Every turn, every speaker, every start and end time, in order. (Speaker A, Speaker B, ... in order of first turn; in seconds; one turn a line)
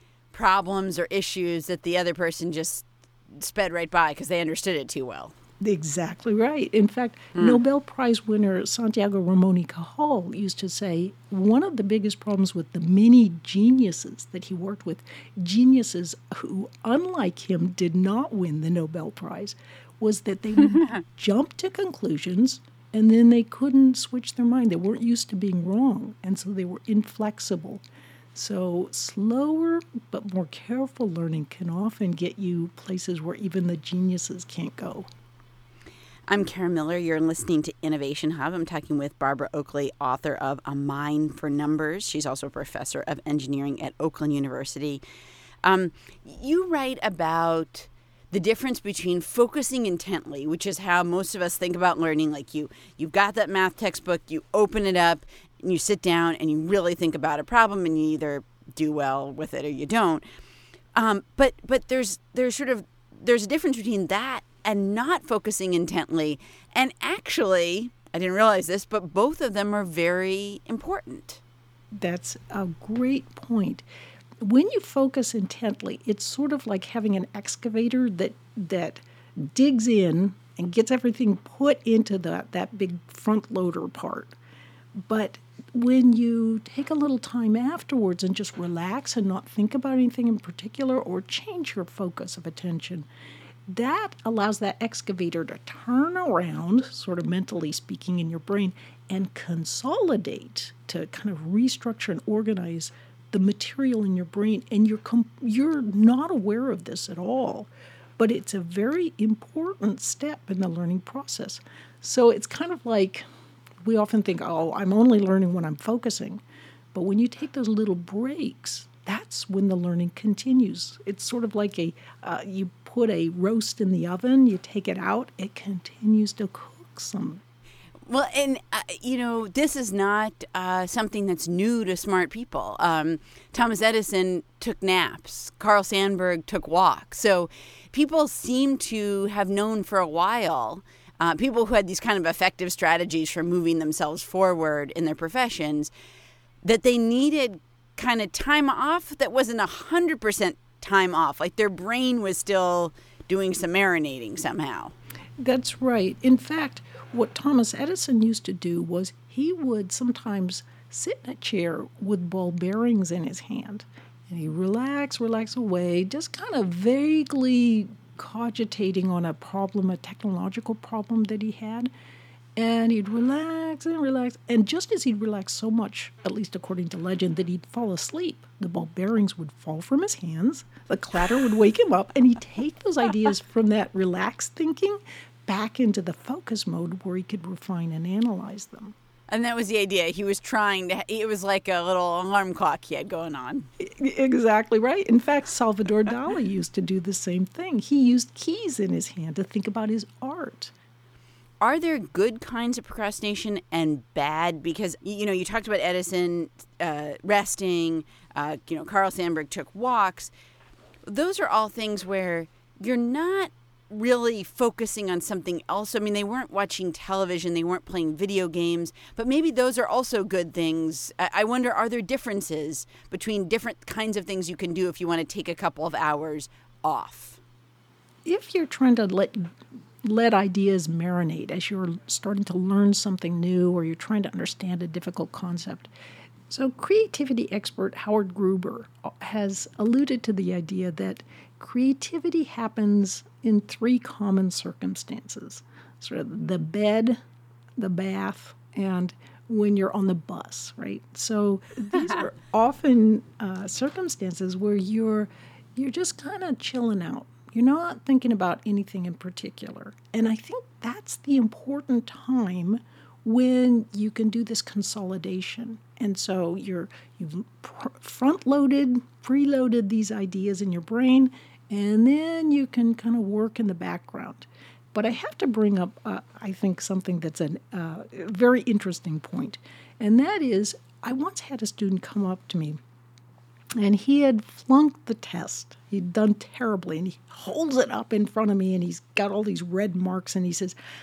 Speaker A: 0.3-5.3
Speaker B: 5.6-27.8
Speaker A: 7.3-7.6
Speaker B: 28.3-35.0
Speaker A: 36.3-45.0
Speaker A: 45.6-60.2
Speaker A: 60.9-71.4
Speaker B: 72.0-73.8
Speaker B: 74.4-84.3
Speaker B: 85.1-93.1
Speaker B: 93.7-113.2
Speaker B: 113.8-116.4
Speaker B: 116.9-127.4
Speaker A: 128.1-145.9
Speaker A: 146.6-154.9
Speaker B: 155.4-171.9
Speaker B: 172.6-188.9
Speaker A: 189.3-193.7
Speaker B: 193.8-200.7
Speaker A: 201.6-210.3
Speaker A: 211.1-227.4
Speaker B: 228.2-229.5
Speaker B: 230.0-235.9
Speaker B: 236.5-247.2
Speaker B: 247.8-282.8
Speaker B: 283.8-290.8